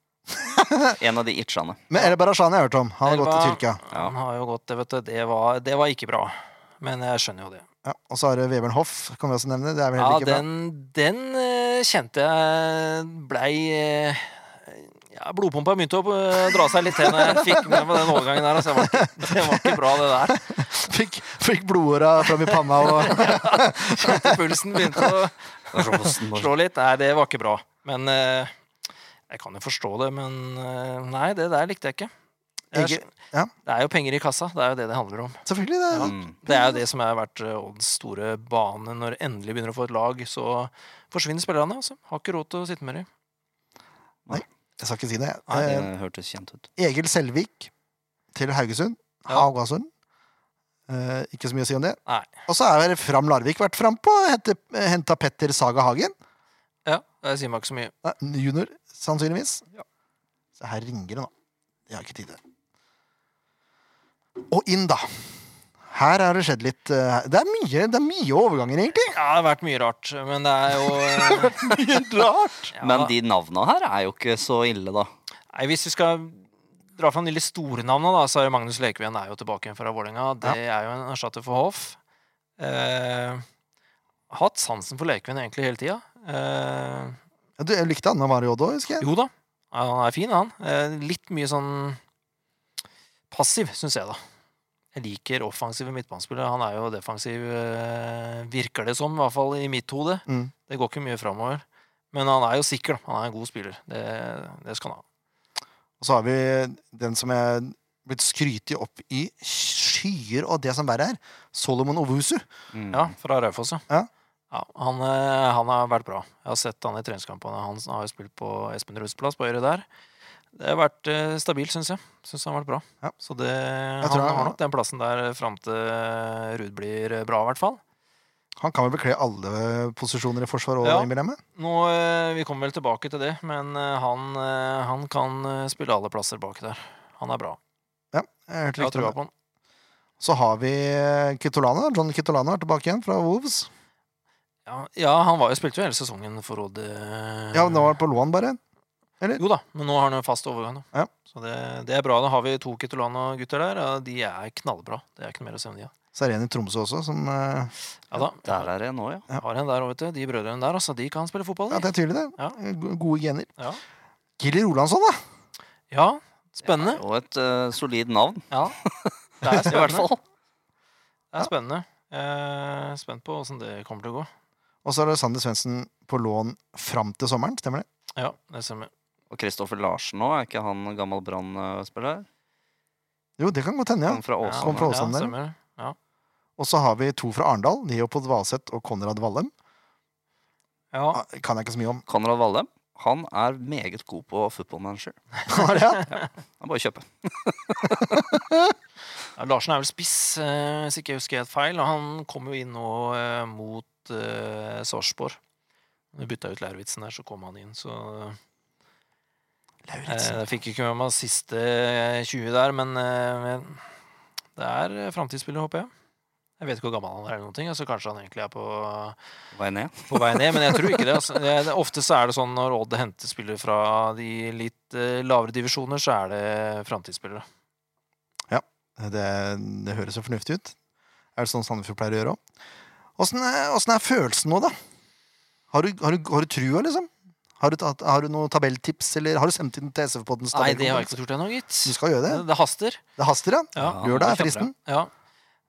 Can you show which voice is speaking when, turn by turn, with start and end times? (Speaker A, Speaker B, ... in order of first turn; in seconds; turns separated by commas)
Speaker A: 0.3-1.0, Speaker B: 0.9-1.8, Speaker A: 1.9-3.8, Speaker C: 3.0-7.6, Speaker A: 7.8-10.4, Speaker C: 10.0-20.5, Speaker A: 17.1-19.8, Speaker A: 20.5-25.1, Speaker C: 22.5-28.5, Speaker B: 25.7-26.5, Speaker C: 29.3-32.1, Speaker C: 32.7-33.1, Speaker A: 32.7-33.5, Speaker C: 33.6-43.1, Speaker A: 35.5-36.7, Speaker B: 36.0-36.4, Speaker A: 44.3-45.9, Speaker B: 45.5-46.7, Speaker A: 46.8-47.7, Speaker A: 48.3-49.9, Speaker A: 50.9-56.1, Speaker C: 56.9-57.9, Speaker A: 58.0-59.6, Speaker A: 60.6-61.3, Speaker A: 61.9-62.4, Speaker A: 64.4-65.1, Speaker A: 65.9-69.2, Speaker C: 69.1-71.6, Speaker A: 71.2-72.7, Speaker B: 72.7-75.1, Speaker C: 72.7-73.1, Speaker C: 75.5-82.0, Speaker C: 82.6-83.4, Speaker C: 84.3-87.2, Speaker A: 87.6-89.1, Speaker C: 89.0-92.0, Speaker C: 93.3-94.2, Speaker C: 94.9-105.0, Speaker A: 100.3-100.5, Speaker A: 106.0-112.4, Speaker B: 112.7-113.1, Speaker C: 112.9-113.8, Speaker C: 114.5-119.8, Speaker C: 120.5-127.8, Speaker A: 124.0-124.5, Speaker A: 128.6-131.4, Speaker C: 130.8-137.6, Speaker A: 138.1-139.2, Speaker C: 138.8-139.3, Speaker A: 140.2-143.7, Speaker C: 144.7-147.9, Speaker A: 147.5-148.6, Speaker C: 149.4-155.9, Speaker A: 156.1-157.7, Speaker C: 158.1-158.7, Speaker B: 158.4-159.2, Speaker C: 159.3-162.6, Speaker A: 161.7-163.5, Speaker A: 164.4-165.2, Speaker C: 165.9-167.0, Speaker B: 166.7-170.2, Speaker C: 168.5-168.8, Speaker C: 169.4-170.1, Speaker C: 171.3-174.3, Speaker A: 174.8-177.8, Speaker C: 178.2-178.9, Speaker B: 179.3-182.2, Speaker A: 183.4-185.3, Speaker B: 184.1-184.9, Speaker C: 184.4-185.9, Speaker A: 186.6-189.5, Speaker C: 190.9-191.2, Speaker A: 191.1-192.0, Speaker B: 192.1-195.2, Speaker A: 195.5-196.1, Speaker B: 196.1-198.2, Speaker A: 198.1-198.7, Speaker C: 199.3-205.4, Speaker C: 206.1-208.4, Speaker A: 209.9-210.4, Speaker C: 210.1-213.8, Speaker C: 214.6-215.9, Speaker C: 216.6-219.2, Speaker B: 219.5-220.4, Speaker C: 220.1-227.4, Speaker A: 228.5-230.7, Speaker A: 231.3-232.4, Speaker A: 233.2-234.7, Speaker A: 235.7-241.1, Speaker C: 240.5-243.0, Speaker A: 241.8-242.4, Speaker A: 243.2-244.7, Speaker C: 243.7-245.1, Speaker B: 243.8-244.5